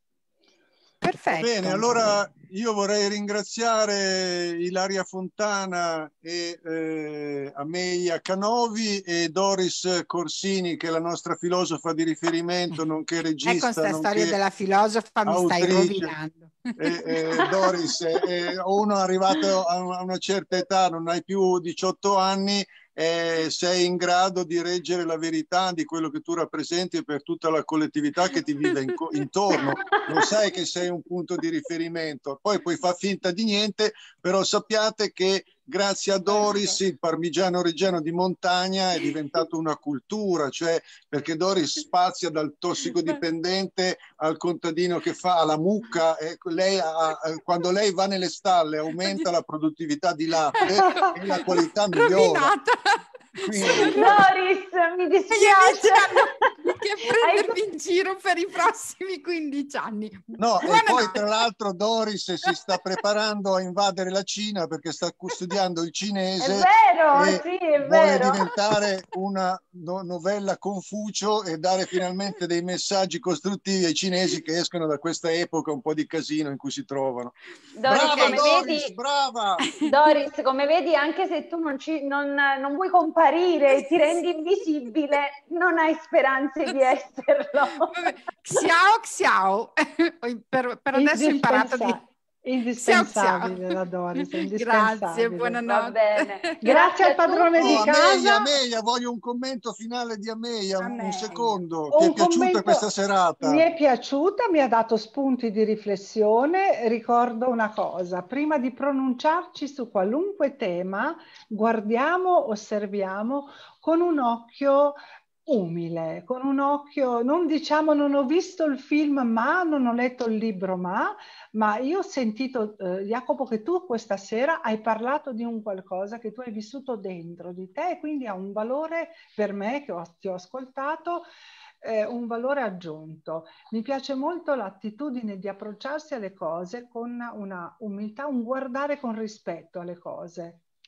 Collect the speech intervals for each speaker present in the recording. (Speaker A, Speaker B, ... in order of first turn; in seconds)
Speaker A: 1.0-2.2, 13.4-17.7, 50.7-54.2, 55.3-61.2, 78.0-78.7, 87.9-92.0, 92.8-96.6, 100.8-101.5
Speaker B: 1.3-14.4, 15.2-16.1, 16.8-52.5, 53.4-54.2, 60.4-77.3, 77.8-79.7, 97.5-103.7
Speaker C: 53.8-57.6, 66.4-68.5, 77.7-78.9, 79.8-88.6, 95.7-97.8
Speaker D: 90.9-95.6, 96.6-98.5, 101.9-102.9, 103.4-131.2, 131.8-140.6